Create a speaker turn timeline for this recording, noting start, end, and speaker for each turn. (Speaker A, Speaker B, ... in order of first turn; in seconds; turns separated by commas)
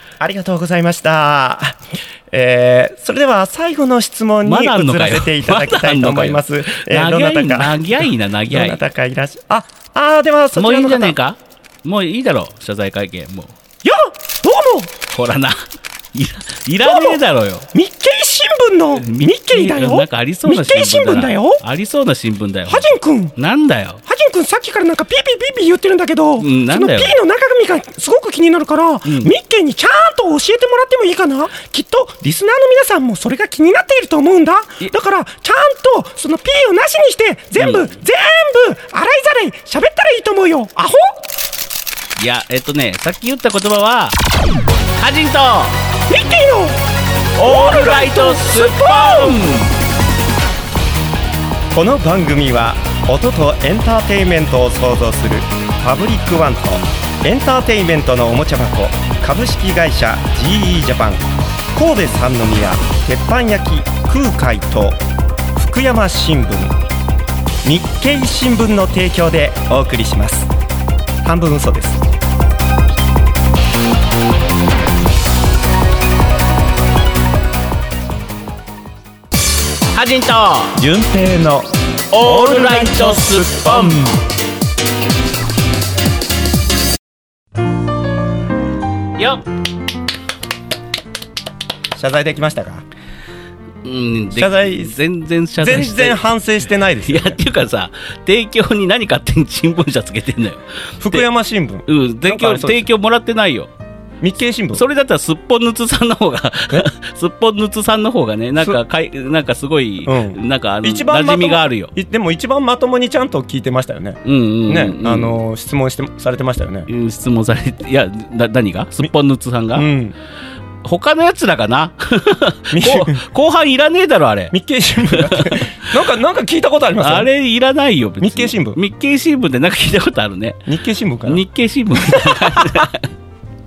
Speaker A: 0.2-11.2, Speaker B: 4.5-8.8, Speaker B: 10.6-13.6, Speaker A: 13.8-14.9, Speaker B: 15.1-17.7, Speaker A: 16.8-17.2, Speaker A: 17.7-21.6, Speaker B: 18.9-24.0, Speaker A: 22.7-23.3, Speaker A: 24.1-41.2, Speaker B: 26.4-27.2, Speaker B: 29.1-29.3, Speaker B: 37.6-38.0, Speaker B: 42.2-44.2, Speaker B: 45.0-45.9, Speaker A: 46.1-46.8, Speaker B: 47.4-49.8, Speaker A: 47.4-49.4, Speaker A: 51.7-65.0, Speaker A: 65.6-66.8, Speaker A: 67.6-70.5, Speaker A: 71.2-72.0, Speaker B: 79.9-80.8, Speaker A: 80.8-84.2, Speaker B: 82.1-84.1, Speaker B: 89.2-89.4, Speaker A: 92.0-92.8, Speaker B: 93.8-96.2, Speaker A: 94.3-95.0, Speaker A: 95.6-97.4, Speaker B: 97.0-101.2, Speaker A: 101.0-102.9, Speaker B: 101.9-103.7, Speaker A: 104.2-104.8, Speaker B: 104.7-111.9, Speaker A: 110.0-116.9, Speaker B: 114.2-115.4, Speaker B: 116.9-119.9, Speaker A: 119.7-120.2, Speaker B: 120.8-124.5, Speaker A: 122.7-123.2, Speaker A: 124.5-127.3, Speaker B: 125.1-125.6, Speaker B: 127.0-130.7, Speaker A: 128.2-128.8, Speaker A: 130.7-131.4, Speaker B: 131.3-133.1, Speaker A: 132.0-132.9